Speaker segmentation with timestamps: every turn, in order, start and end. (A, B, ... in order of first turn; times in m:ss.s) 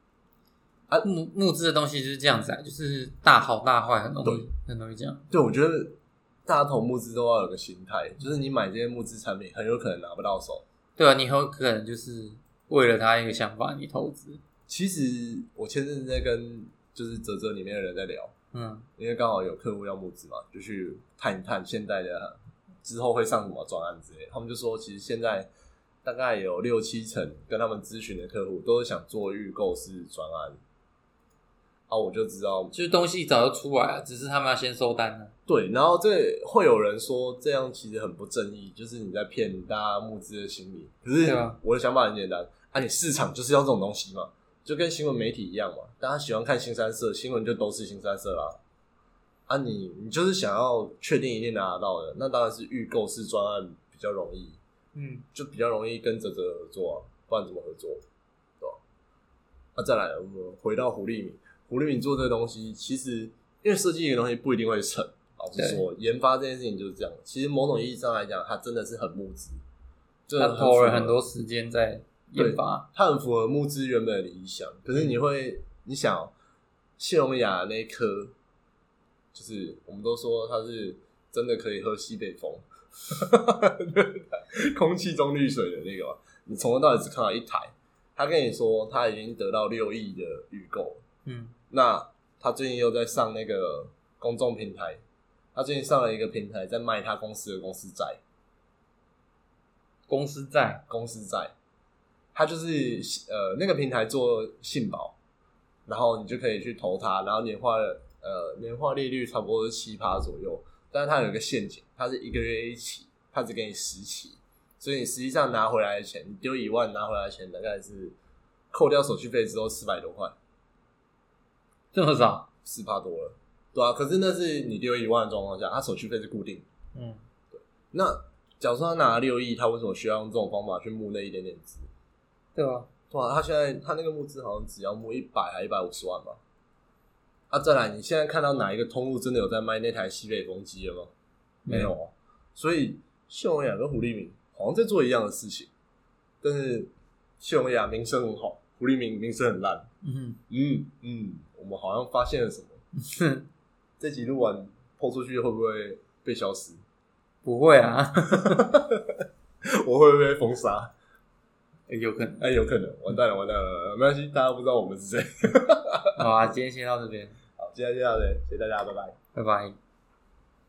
0:01.0-0:05.3 A
0:05.3-0:10.6 B
0:11.0-0:14.4 A
0:14.7-0:18.3 B
0:18.5-0:18.9 A
0:19.0-0:25.5 B
0:26.0-0:30.6 B
0:31.9-0:32.8 B
0:32.7-0:35.3 A
0:35.5-0:48.6 B
0:41.2-0:41.6 A
0:49.5-0:54.6 B
0:55.0-0:55.3 A
0:55.3-0:58.0 B
0:59.8-1:09.6 B
1:05.6-1:05.8 A
1:10.3-1:11.2 B
1:10.4-1:12.9 A
1:12.4-1:16.3 B
1:17.0-1:18.3 B
1:19.3-1:31.0 B
1:31.2-1:31.6 A
1:31.7-1:35.0 B
1:35.6-1:38.2 B
1:40.1-1:40.8 A
1:40.9-1:41.5 B
1:42.4-1:45.2 B
1:45.9-1:58.2 B
1:58.7-2:00.4 B
2:01.9-2:02.5 A
2:02.6-2:06.7 B
2:06.9-2:07.2 A
2:07.5-2:11.9 B
2:12.6-2:12.9 A
2:13.1-2:16.4 B
2:17.5-2:21.1 B
2:21.6-2:22.0 A
2:21.7-2:25.7 B
2:26.4-2:29.9 B
2:30.0-2:30.4 A
2:30.5-2:32.8 B
2:33.0-2:33.5 A
2:34.0-2:36.8 B
2:37.4-2:38.7 A
2:38.5-2:40.9 B
2:41.9-2:42.4 A
2:42.4-2:46.2 B
2:46.2-2:47.4 A
2:47.6-2:49.2 B
2:49.4-2:49.8 A